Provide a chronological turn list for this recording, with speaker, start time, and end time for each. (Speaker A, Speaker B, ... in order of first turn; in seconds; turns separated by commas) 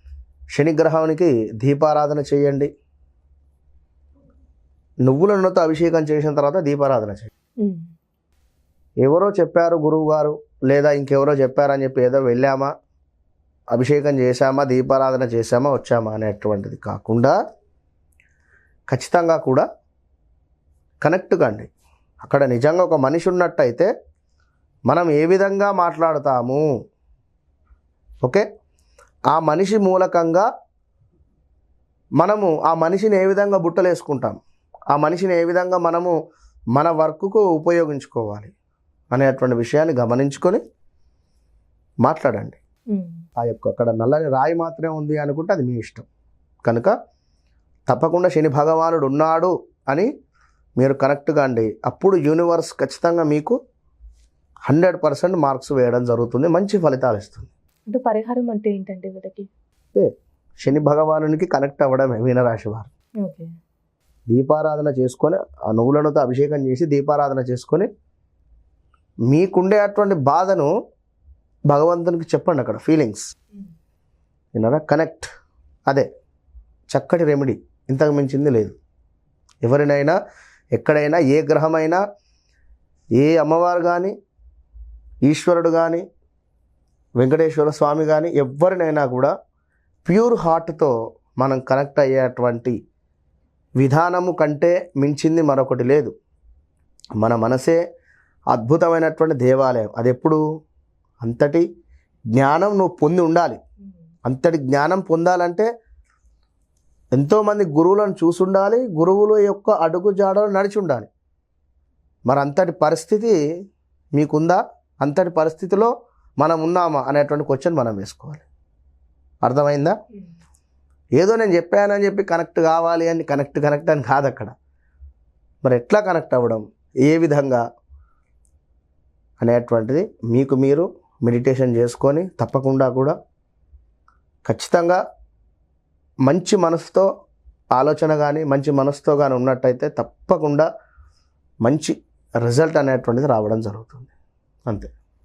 Speaker A: 0.5-2.7, Speaker A: 5.0-7.3, Speaker B: 7.6-7.9, Speaker A: 9.0-12.7, Speaker A: 13.7-17.3, Speaker A: 18.9-19.6, Speaker A: 21.0-21.7, Speaker A: 22.2-23.9, Speaker A: 24.9-26.7, Speaker A: 29.3-30.4, Speaker A: 32.2-34.4, Speaker A: 34.9-36.1, Speaker A: 36.7-38.5, Speaker A: 39.1-40.6, Speaker A: 42.0-42.6, Speaker B: 42.9-43.2, Speaker A: 43.4-46.0, Speaker A: 46.6-46.9, Speaker A: 47.9-50.1, Speaker A: 50.8-53.5, Speaker A: 54.7-57.5, Speaker B: 57.9-59.5, Speaker A: 60.6-62.9, Speaker B: 63.2-63.5, Speaker A: 64.3-67.9, Speaker A: 69.3-70.7, Speaker A: 71.7-73.3, Speaker A: 74.5-75.3, Speaker A: 76.9-78.7, Speaker A: 79.6-80.2, Speaker A: 80.7-82.0, Speaker A: 83.2-84.1, Speaker A: 85.3-86.0, Speaker A: 87.2-89.3, Speaker A: 90.0-92.8, Speaker A: 93.8-96.1, Speaker A: 97.2-97.8, Speaker A: 98.5-100.4, Speaker A: 101.2-101.6, Speaker A: 102.3-103.6, Speaker A: 104.2-105.7, Speaker A: 107.1-111.1, Speaker A: 112.3-113.4, Speaker A: 114.1-118.4, Speaker A: 119.4-119.9, Speaker A: 121.2-124.5, Speaker A: 125.6-127.6, Speaker A: 129.4-133.1, Speaker A: 134.4-135.0, Speaker A: 136.2-137.1, Speaker A: 137.7-140.7, Speaker A: 141.6-144.1